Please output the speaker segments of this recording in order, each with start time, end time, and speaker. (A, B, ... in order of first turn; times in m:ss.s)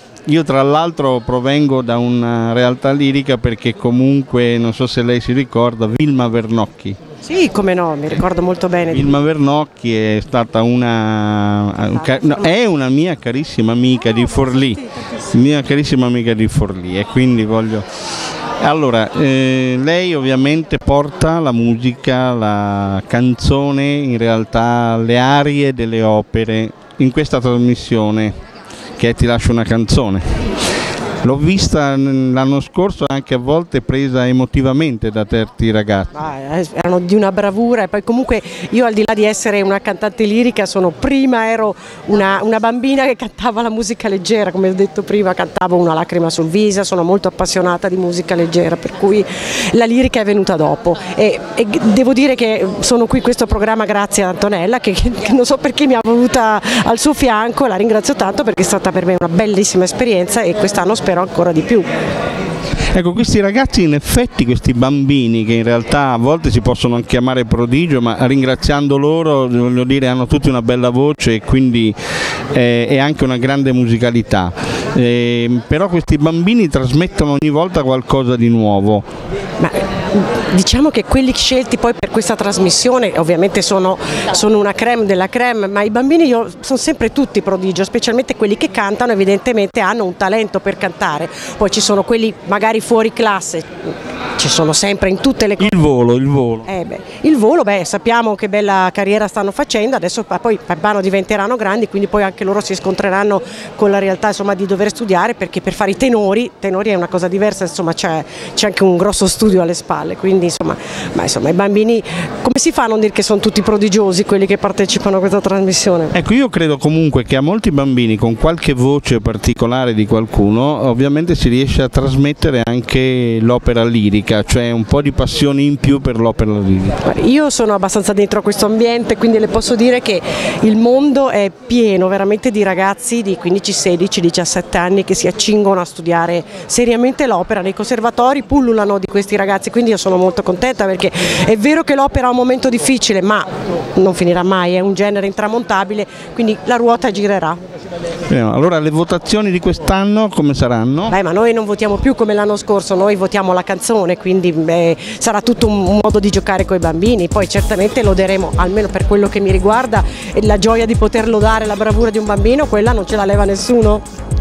0:00.3-0:07.0 A
0:07.2-0:09.1 B
0:08.9-0:17.8 A
0:11.9-0:12.5 B
0:18.6-0:28.4 A
0:29.0-0:30.4 A
0:31.2-0:36.1 A
0:36.1-1:01.9 B
1:02.9-1:12.0 A
1:12.5-1:19.0 A
1:19.6-1:35.7 B
1:35.6-1:36.7 A
1:36.6-1:56.1 B
1:56.1-2:07.0 A
2:07.0-2:27.6 B
2:28.3-2:31.2 A
2:31.1-2:44.0 B